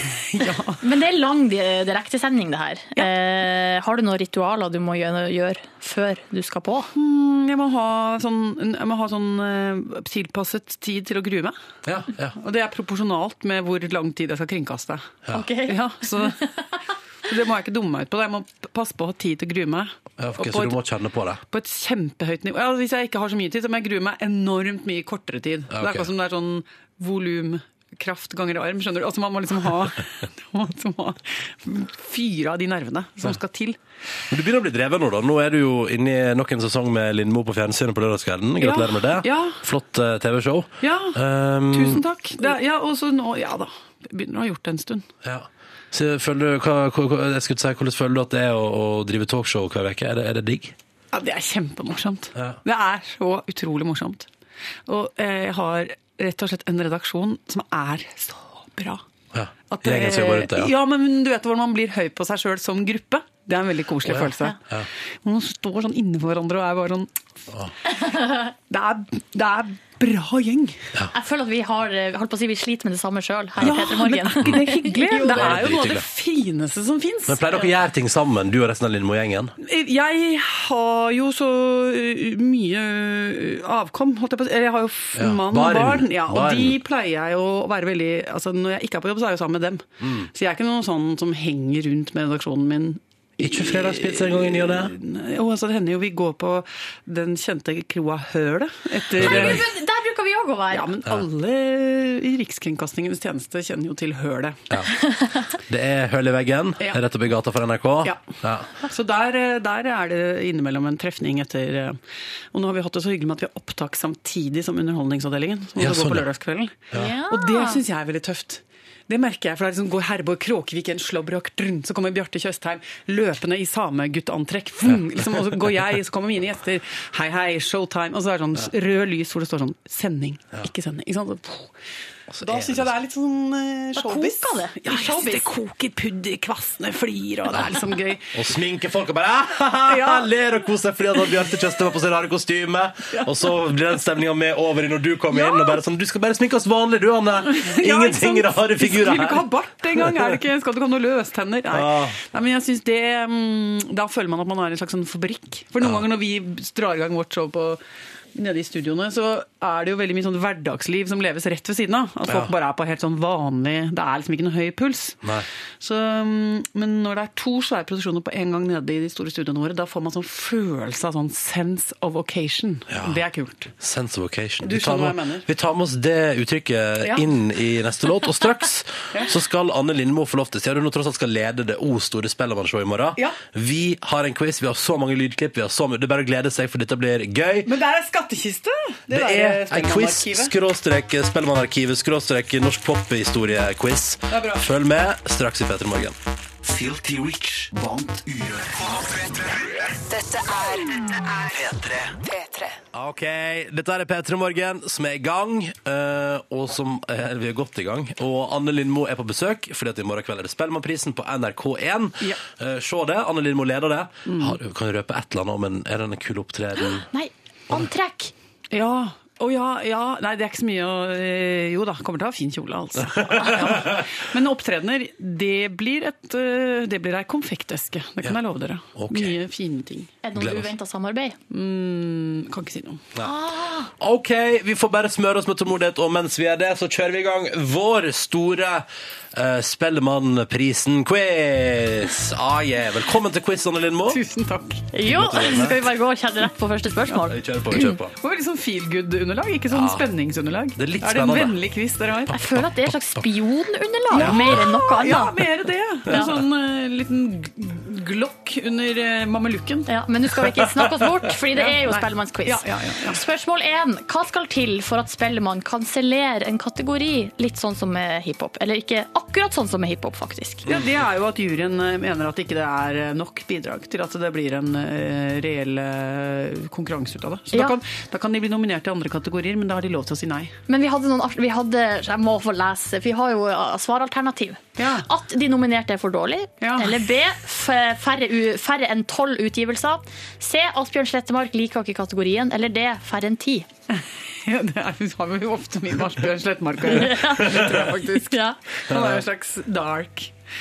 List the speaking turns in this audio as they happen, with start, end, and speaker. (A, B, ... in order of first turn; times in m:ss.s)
0:00.3-0:00.8 A
0:00.8-0:06.9 B
0:06.9-0:11.6 A
0:11.8-0:12.4 C
0:12.3-0:16.4 A
0:15.3-0:16.8 B
0:17.3-0:20.8 A
0:20.2-0:21.4 C
0:21.5-0:33.8 A
0:25.7-0:26.1 C
0:34.3-0:42.0 C
0:38.6-0:39.6 A
0:40.8-0:45.1 A
0:45.2-0:50.7 C
0:51.1-0:54.3 A
0:52.3-0:52.6 C
0:54.9-0:59.0 A
0:59.3-1:00.7 C
0:59.7-1:04.6 A
1:04.0-1:04.9 C
1:05.2-1:07.1 A
1:07.9-1:08.5 B
1:08.7-1:10.8 A
1:11.1-1:15.6 B
1:13.6-1:17.7 A
1:15.2-1:16.0 C
1:17.3-1:19.5 C
1:19.6-1:39.7 A
1:25.1-1:26.8 C
1:30.0-1:30.3 C
1:33.4-1:34.9 C
1:39.2-1:39.7 C
1:39.2-1:40.9 B
1:40.7-1:44.6 A
1:45.0-1:45.5 B
1:45.7-1:48.7 C
1:48.9-1:52.0 A
1:52.5-2:11.7 A
1:55.8-1:56.3 C
1:56.9-1:57.8 B
2:12.3-2:12.9 C
2:12.4-2:18.3 A
2:14.0-2:15.5 B
2:18.3-2:30.3 C
2:19.8-2:20.3 A
2:25.3-2:25.8 A
2:27.4-2:37.8 A
2:31.7-2:32.2 C
2:38.3-2:45.2 A
2:42.2-2:42.5 C
2:45.8-2:53.7 A
2:52.9-2:53.2 C
2:53.8-3:07.7 C
2:54.6-2:55.5 A
2:57.0-2:57.3 A
2:59.1-2:59.4 A
3:07.6-3:10.6 A
3:09.1-3:16.2 C
3:14.3-3:14.7 A
3:16.6-3:18.8 D
3:22.9-3:37.1 C
3:34.3-3:34.6 A
3:37.0-3:38.3 B
3:38.7-3:50.1 A
3:43.2-3:44.0 C
3:48.9-3:49.4 C
3:50.2-3:51.4 B
3:50.4-3:50.7 C
3:51.5-3:53.1 A
3:53.2-3:53.9 B
3:54.0-4:04.2 C
4:04.1-4:04.9 A
4:04.9-4:08.0 B
4:05.0-4:05.8 C
4:07.2-4:08.1 C
4:08.1-4:12.4 A
4:09.7-4:10.0 C
4:10.8-4:11.6 C
4:12.3-4:15.5 B
4:14.1-4:19.9 A
4:14.2-4:14.6 C
4:16.0-4:16.4 B
4:19.9-4:30.7 B
4:21.3-4:23.3 A
4:30.7-4:40.5 A
4:37.5-4:37.8 B
4:40.7-4:53.7 B
4:44.8-4:45.1 A
4:46.6-4:47.0 A
4:53.9-5:00.3 A
4:56.8-4:58.6 B
4:58.9-4:59.2 C